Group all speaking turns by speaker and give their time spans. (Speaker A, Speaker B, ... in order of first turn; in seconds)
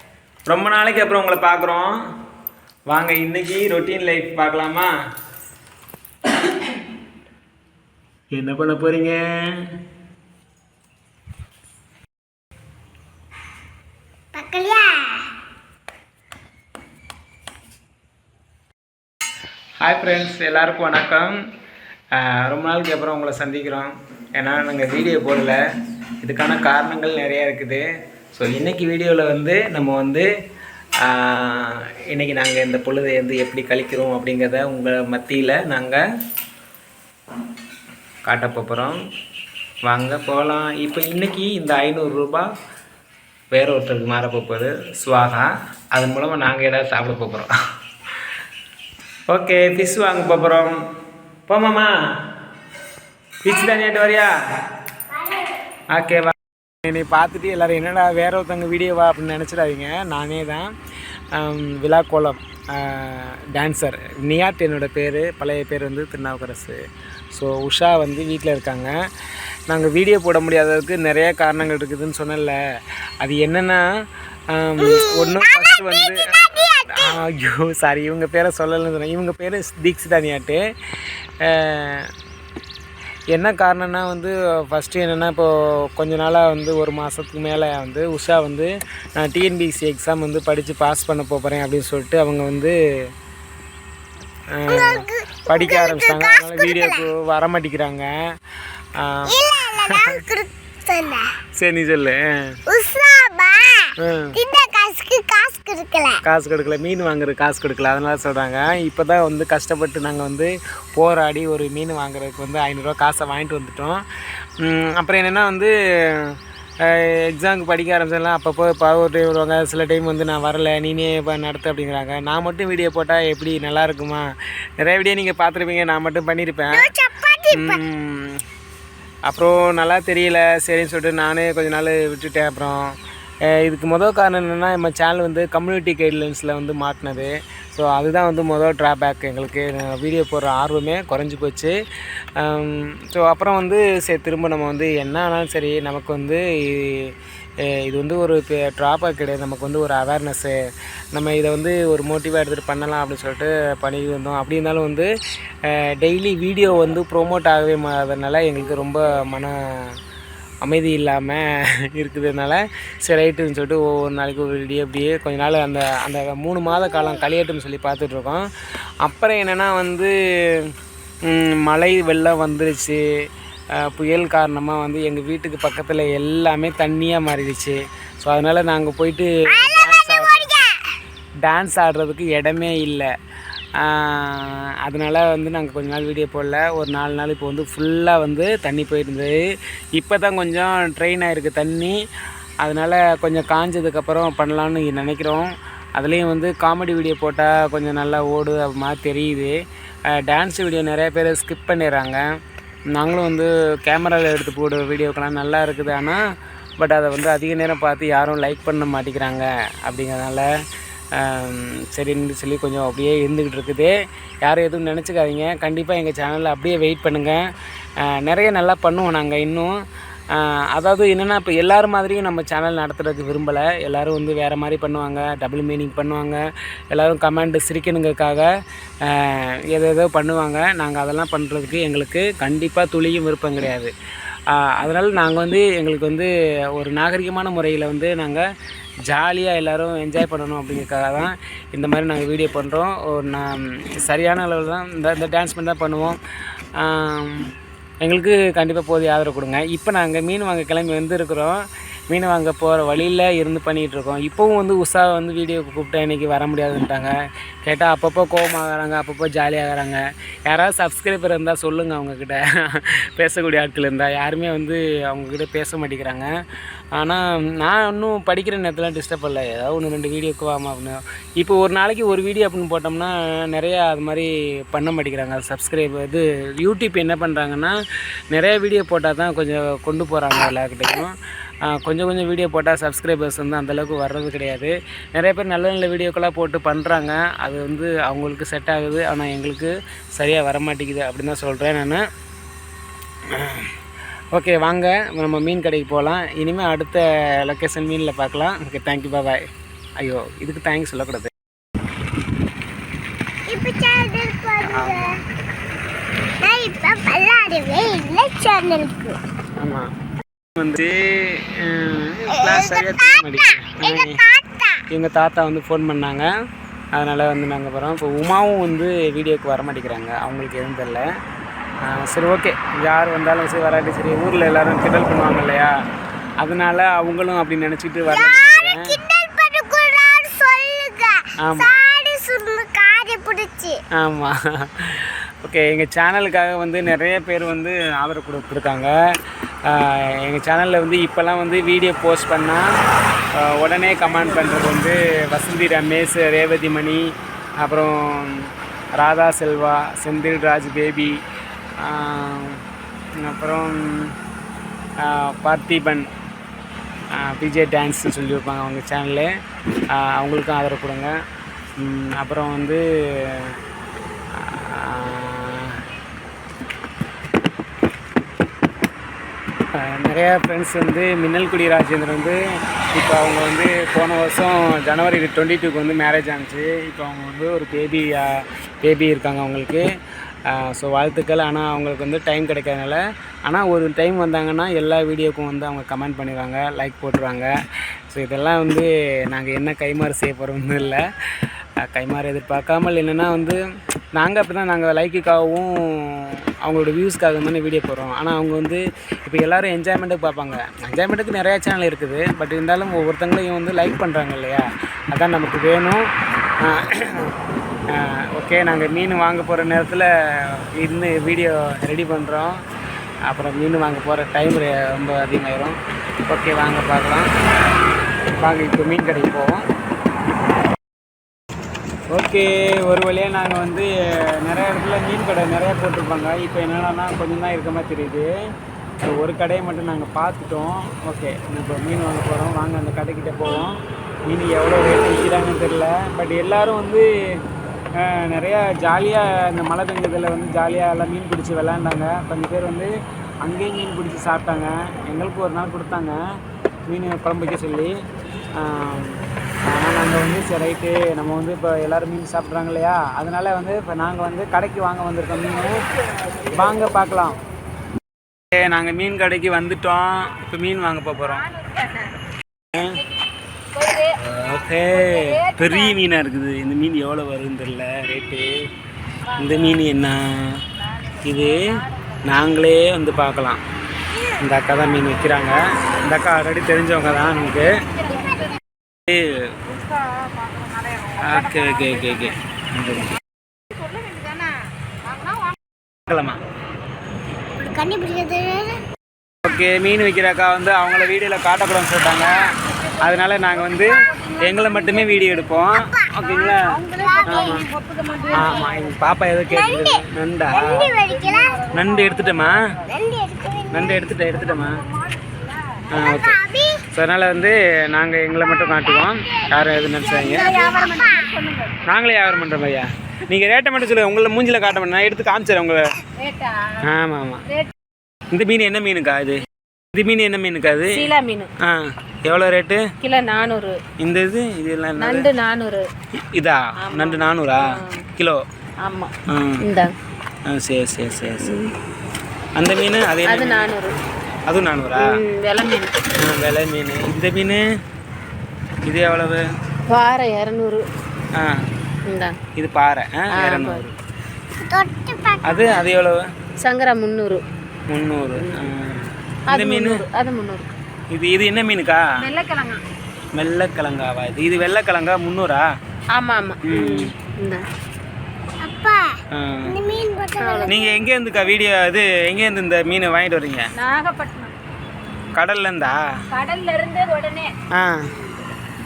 Speaker A: 0.5-2.0, 2.9-4.9, 8.3-9.7, 19.8-21.4, 22.1-25.6, 26.2-30.3, 31.0-36.0, 38.2-39.0, 39.9-42.5, 43.5-47.5, 49.3-50.8, 51.5-51.9, 53.4-54.3, 55.9-60.7, 61.3-66.8, 67.3-68.9, 69.7-72.6, 73.2-73.8, 74.5-76.3, 76.9-80.6, 81.4-82.1, 83.3-92.8, 94.5-98.1, 99.0-100.2, 101.5-102.6, 104.0-104.4, 106.2-114.0, 114.6-126.9, 127.5-128.4, 129.3-132.9, 133.4-141.8, 142.4-150.6, 151.1-155.1, 155.6-160.0, 160.6-168.4, 169.0-170.7, 171.2-173.0, 173.7-180.5, 181.4-183.1, 183.8-189.4, 189.9-192.0, 192.6-199.6, 200.1-202.2, 202.9-206.2, 206.8-210.5, 211.1-217.5, 218.0-219.8, 220.3-228.5, 229.0-233.9, 234.5-238.4, 239.1-246.2, 246.8-247.5, 248.0-266.3, 266.9-277.8, 278.3-292.0, 293.3-293.7, 294.3-299.4, 300.0-301.3, 304.7-305.1, 309.6-309.9, 310.6-314.2, 314.9-316.3, 316.9-321.1, 321.8-325.7, 326.4-329.0, 331.4-331.8, 333.9-338.9, 339.6-342.7, 343.3-351.2, 351.8-352.6, 353.2-354.1, 355.0-356.1, 357.1-359.3, 359.9-361.1, 361.8-363.6, 364.3-365.8, 369.7-372.4, 372.9-379.9, 380.4-387.5, 388.1-391.1, 391.8-393.6, 394.1-406.1, 406.6-407.3, 407.9-412.6, 413.3-417.3, 418.4-419.6, 422.1-428.3, 429.0-437.1, 438.0-448.0, 448.5-455.9, 456.5-457.4, 458.5-461.4, 462.7-463.0, 464.1-468.7, 469.3-470.6, 471.2-473.6, 474.4-477.8, 479.1-479.5, 481.2-483.2, 486.1-486.4, 489.4-496.7, 497.2-497.6, 498.3-500.9, 501.7-502.6, 503.7-504.8, 505.9-506.4, 506.9-510.5, 511.8-515.9, 516.8-517.5, 518.3-522.9, 524.0-525.3, 526.2-528.4, 529.3-529.7, 530.5-531.6, 532.6-533.8, 534.5-535.1, 536.2-537.6, 538.8-539.4, 541.3-541.6, 542.5-543.9, 545.4-546.3, 547.9-550.0, 551.1-552.1, 553.3-555.7, 556.6-557.1, 559.3-559.8, 560.7-563.7, 565.3-566.0, 567.7-568.1
Speaker B: 14.3-15.2, 55.1-55.5, 74.8-77.2, 94.7-97.0, 99.2-101.3, 102.7-106.2, 126.7-127.8, 179.4-180.8, 303.5-305.2, 306.4-309.1, 312.3-314.8, 328.1-333.8, 478.0-478.6, 487.6-488.8, 495.7-497.7, 499.5-501.7, 502.9-504.1, 505.9-506.8, 510.0-511.4, 544.6-545.8, 558.6-559.1, 559.6-560.9
Speaker C: 461.6-462.1, 463.8-464.1, 464.9-466.0, 469.3-469.8, 471.1-472.2, 478.0-478.6, 479.7-482.3, 483.7-484.5, 485.1-485.5, 493.0-495.2, 496.4-499.0, 500.9-502.8, 504.4-505.6, 510.2-511.7, 516.2-516.8, 520.9-521.5, 523.0-523.8, 525.0-525.9, 526.8-528.0, 528.8-529.9, 531.4-531.7, 533.3-533.9, 535.0-535.9, 539.9-540.8, 542.1-542.4, 543.3-543.8, 546.6-547.4, 548.4-548.7, 549.5-550.7, 552.2-552.8, 556.1-557.6, 560.4-560.7, 563.7-564.5, 566.3-567.5